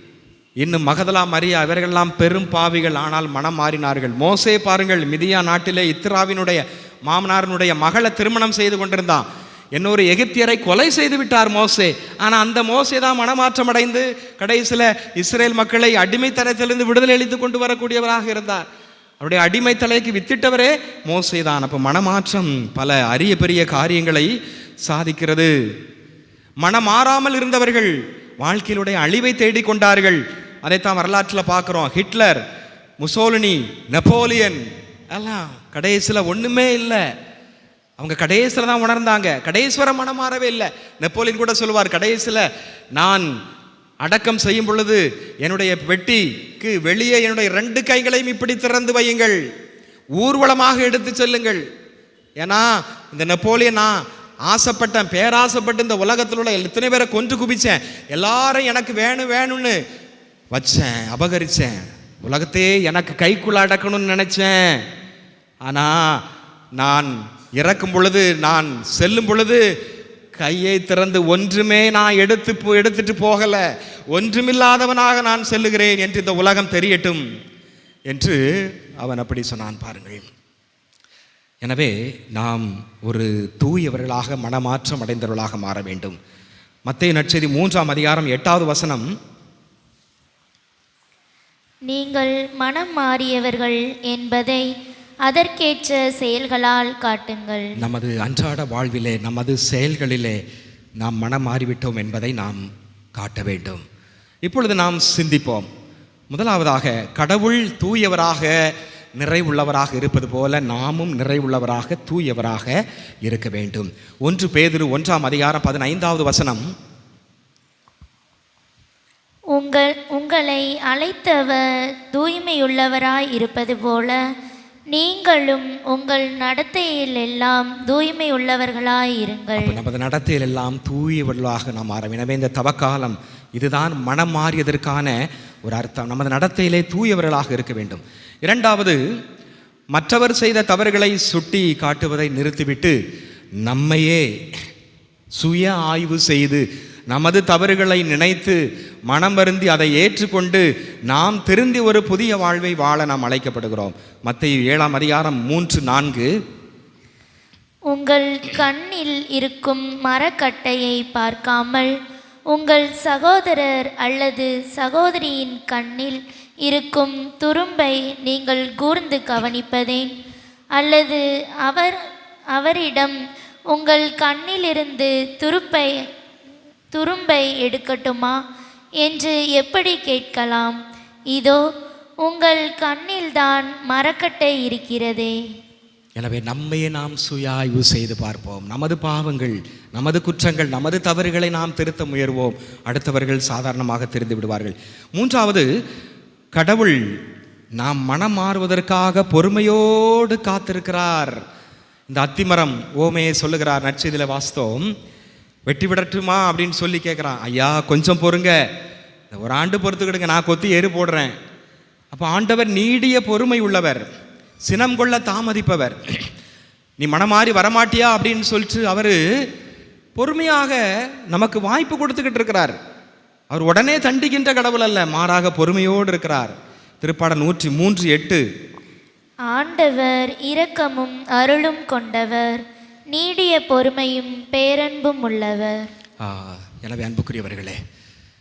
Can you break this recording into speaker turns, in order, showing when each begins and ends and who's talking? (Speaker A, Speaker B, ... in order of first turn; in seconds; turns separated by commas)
Speaker A: 0.6-18.7, Speaker A: 19.2-25.5, Speaker A: 26.6-32.4, Speaker A: 33.0-37.0, Speaker A: 38.0-43.3, Speaker A: 44.0-49.4, Speaker A: 50.2-51.6, Speaker A: 52.4-59.8, Speaker A: 60.5-64.9, Speaker A: 65.7-66.2, Speaker A: 66.8-69.6, Speaker A: 70.4-77.2, Speaker A: 78.1-80.3, Speaker A: 81.6-86.2, Speaker A: 86.9-89.1, Speaker B: 91.9-94.7, Speaker B: 95.3-97.8, Speaker A: 97.8-100.4, Speaker A: 101.0-103.8, Speaker A: 104.5-105.7, Speaker A: 106.3-108.5, Speaker A: 109.2-116.7, Speaker B: 119.5-124.2, Speaker B: 124.9-129.8, Speaker A: 129.6-139.0, Speaker A: 139.9-143.0, Speaker A: 143.6-144.3, Speaker A: 145.4-156.3, Speaker B: 157.9-161.9, Speaker B: 162.5-170.1, Speaker B: 170.8-171.9, Speaker B: 172.5-173.2, Speaker B: 173.7-176.1, Speaker B: 176.9-178.4, Speaker B: 179.0-180.8, Speaker B: 181.3-181.6, Speaker B: 182.2-185.3, Speaker A: 186.2-195.7, Speaker A: 196.5-197.0, Speaker A: 197.8-201.4, Speaker A: 202.1-204.9, Speaker A: 205.7-208.7, Speaker A: 209.3-211.4, Speaker A: 212.1-214.1, Speaker A: 214.7-216.3, Speaker A: 217.0-219.2, Speaker A: 220.2-220.8, Speaker A: 221.3-222.8, Speaker A: 223.5-228.4, Speaker B: 229.5-235.9, Speaker A: 236.2-237.8